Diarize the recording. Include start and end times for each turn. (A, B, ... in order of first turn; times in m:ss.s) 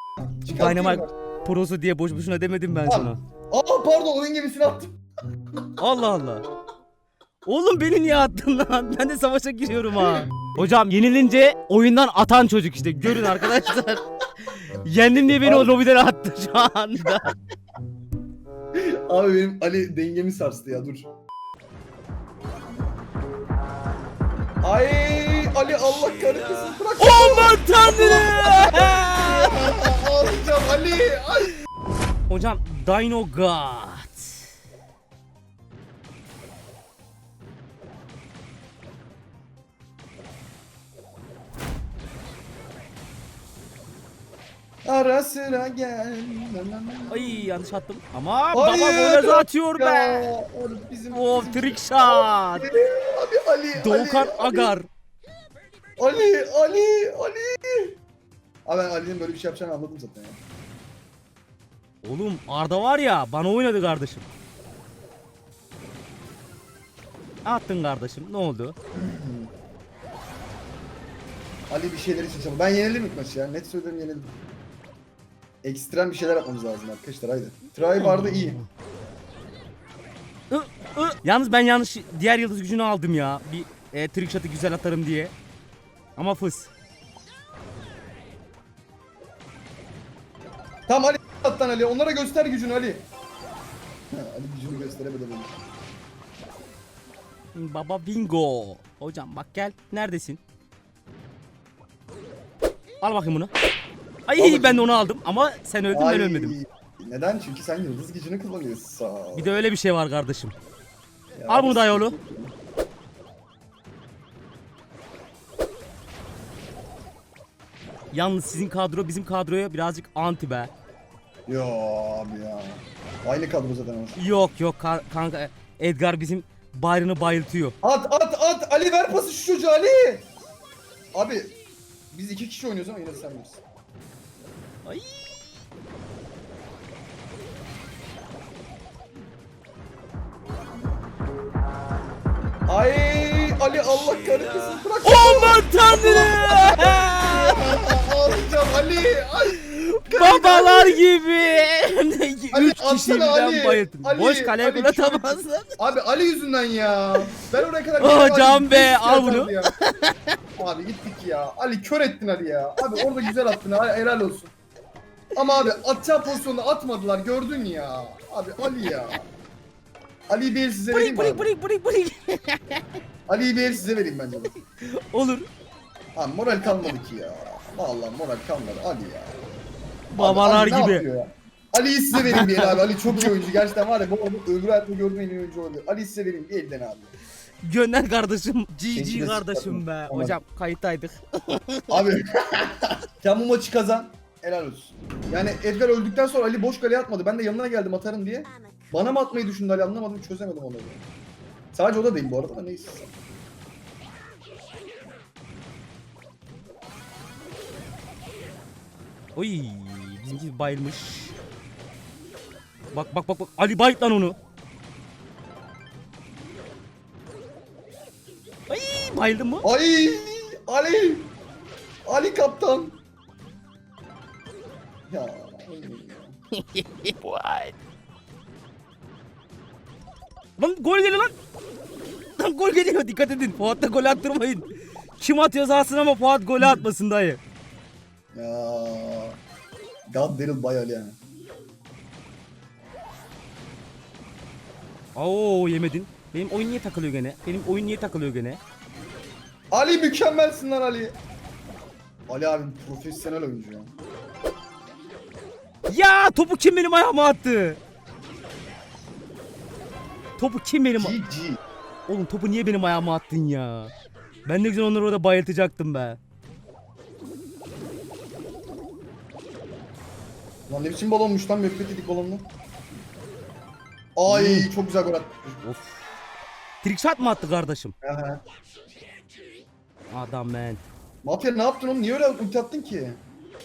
0:00.3-0:01.1 A
0:00.5-0:03.2 B
0:02.9-0:05.0 A
0:05.8-0:06.4 B
0:07.4-0:14.0 B
0:10.0-0:10.3 A
0:14.6-0:17.3 B
0:15.4-0:15.7 A
0:18.7-0:21.1 A
0:24.6-0:31.5 A
0:27.0-0:29.7 B
0:32.3-0:34.4 B
0:44.8-0:47.5 A
0:47.1-0:50.3 B
0:48.5-0:54.7 A
0:51.1-0:52.7 B
0:53.7-0:54.9 B
0:56.0-0:58.0 A
0:58.6-1:00.4 A
1:02.0-1:04.3 B
1:07.4-1:08.7 B
1:08.9-1:09.5 A
1:11.7-1:14.3 A
1:15.6-1:18.6 A
1:18.0-1:18.6 B
1:20.5-1:25.3 B
1:26.2-1:26.7 B
1:30.9-1:33.0 A
1:34.1-1:35.6 A
1:37.5-1:40.4 B
1:43.0-1:43.5 B
1:44.3-1:46.6 B
1:44.4-1:45.0 A
1:45.9-1:49.5 A
1:49.3-1:50.5 B
1:51.4-1:52.5 A
1:51.5-1:52.1 B
1:58.1-2:00.7 B
2:01.5-2:04.2 A
2:04.2-2:07.7 B
2:07.8-2:10.3 A
2:11.1-2:11.6 A
2:12.1-2:13.6 A
2:14.8-2:15.4 B
2:22.7-2:31.0 A
2:25.0-2:27.6 B
2:29.6-2:35.7 B
2:32.5-2:39.7 A
2:38.0-2:40.4 B
2:40.6-2:44.5 A
2:42.9-2:43.3 B
2:45.3-2:49.3 A
2:50.3-2:51.5 A
2:50.9-2:52.8 B
2:53.3-2:54.5 A
2:54.6-2:55.5 B
2:56.2-2:59.4 A
3:00.1-3:01.0 B
3:00.2-3:07.1 A
3:02.2-3:03.3 B
3:07.6-3:12.0 B
3:08.9-3:10.4 A
3:11.9-3:21.0 A
3:21.7-3:23.1 A
3:29.4-3:31.4 B
3:32.9-3:34.4 B
3:38.7-3:39.7 B
3:39.6-3:41.3 A
3:42.0-3:43.0 A
3:45.1-3:46.3 A
3:46.5-3:47.7 B
3:50.6-3:51.3 B
3:52.4-3:54.7 B
3:55.2-3:57.4 B
3:56.6-3:56.8 A
3:58.3-3:59.4 A
4:00.1-4:01.2 A
4:05.1-4:08.6 B
4:09.7-4:11.1 A
4:12.3-4:13.9 A
4:15.9-4:17.8 B
4:20.4-4:21.2 B
4:21.0-4:21.6 A
4:22.1-4:23.9 B
4:24.4-4:26.2 B
4:30.7-4:32.5 A
4:34.2-4:35.6 A
4:34.3-4:34.7 B
4:35.6-4:36.0 B
4:36.8-4:37.9 B
4:38.0-4:38.4 A
4:40.1-4:40.8 B
4:41.2-4:43.2 A